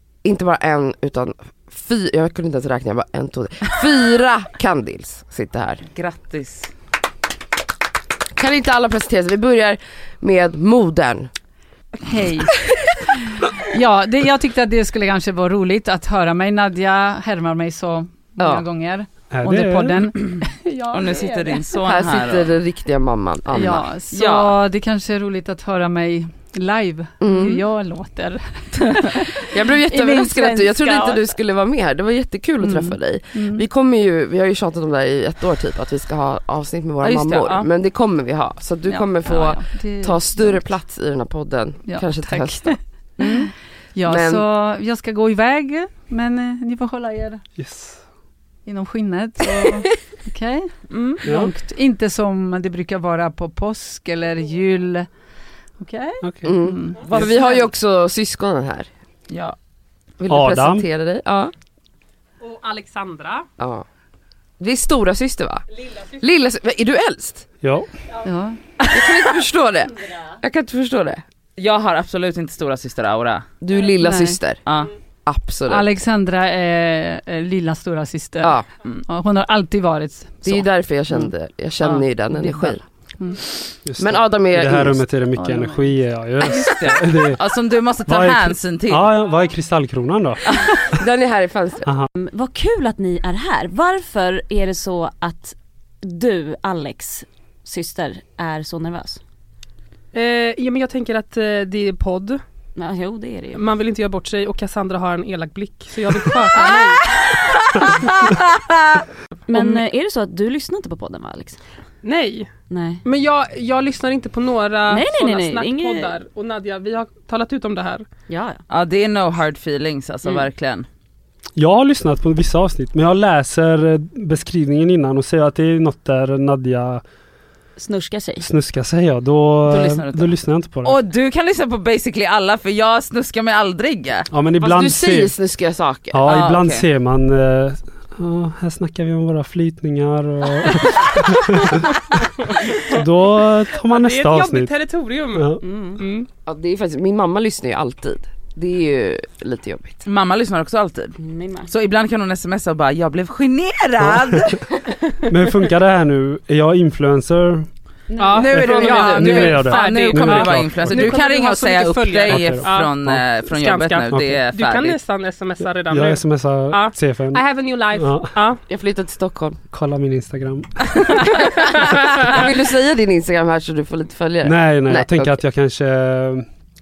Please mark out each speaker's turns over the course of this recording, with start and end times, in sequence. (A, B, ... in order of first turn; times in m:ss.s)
0:00.2-0:05.8 A
0:05.9-0:06.7 B
0:08.4-0:11.3 A
0:12.0-0:12.5 C
0:13.7-0:21.7 C
0:18.4-0:18.6 A
0:19.3-0:20.0 D
0:20.9-0:22.5 B
0:21.8-0:23.9 A
0:23.5-0:31.2 C
0:24.1-0:24.5 B
0:27.2-0:27.6 A
0:29.5-0:42.8 A
0:32.6-0:33.6 C
0:37.0-0:37.7 B
0:39.2-0:40.6 C
0:41.9-0:47.4 C
0:43.2-0:43.5 B
0:44.1-0:44.4 A
0:47.6-0:48.0 D
0:48.6-0:50.7 C
0:50.9-0:51.3 B
0:51.2-0:51.5 D
0:51.2-0:55.1 C
0:55.8-0:56.2 C
0:56.2-0:56.5 D
0:56.4-0:58.9 A
0:56.6-0:57.4 B
0:59.3-0:59.6 B
1:00.2-1:01.5 A
1:00.3-1:00.8 D
1:02.4-1:03.5 E
1:03.6-1:03.8 A
1:04.6-1:05.6 A
1:06.2-1:07.4 A
1:07.6-1:07.9 D
1:08.2-1:08.6 C
1:08.8-1:09.1 B
1:08.9-1:11.2 A
1:11.6-1:13.4 B
1:13.6-1:14.6 A
1:14.0-1:14.4 C
1:14.6-1:14.9 B
1:15.2-1:15.9 A
1:15.6-1:20.6 C
1:20.4-1:22.8 A
1:21.8-1:23.4 C
1:23.8-1:27.4 D
1:24.0-1:25.0 A
1:26.4-1:29.0 B
1:28.1-1:30.4 D
1:30.5-1:30.8 B
1:30.9-1:31.9 A
1:32.1-1:39.2 F
1:40.1-1:42.4 E
1:42.8-1:43.6 F
1:43.6-1:47.0 E
1:46.6-1:49.7 B
1:49.5-1:51.6 F
1:52.0-1:52.5 E
1:52.7-1:53.0 F
1:53.0-1:58.0 E
1:54.9-1:56.1 F
1:58.3-1:58.6 F
1:58.7-2:00.8 B
2:01.6-2:07.0 D
2:07.8-2:08.5 F
2:08.4-2:11.0 D
2:09.7-2:10.3 B
2:10.8-2:14.3 B
2:14.3-2:15.3 D
2:14.6-2:16.3 A
2:16.1-2:21.9 D
2:16.2-2:16.8 B
2:22.9-2:24.7 D
2:23.9-2:26.3 E
2:25.3-2:25.6 D
2:25.6-2:26.0 F
2:26.5-2:30.0 A
2:30.0-2:31.2 B
2:31.2-2:31.7 F
2:31.7-2:34.6 B
2:34.0-2:34.4 D
2:35.3-2:37.7 D
2:38.1-2:38.4 F
2:38.2-2:42.9 E
2:38.3-2:45.0 B
2:38.5-2:41.1 D
2:38.6-2:39.2 A
2:42.3-2:43.2 D
2:43.4-2:48.6 E
2:44.1-2:44.4 D
2:45.9-2:47.4 D
2:47.9-2:48.3 D
2:48.7-2:49.6 A
2:49.7-2:50.9 D
2:51.2-2:55.4 A
2:54.4-2:56.4 D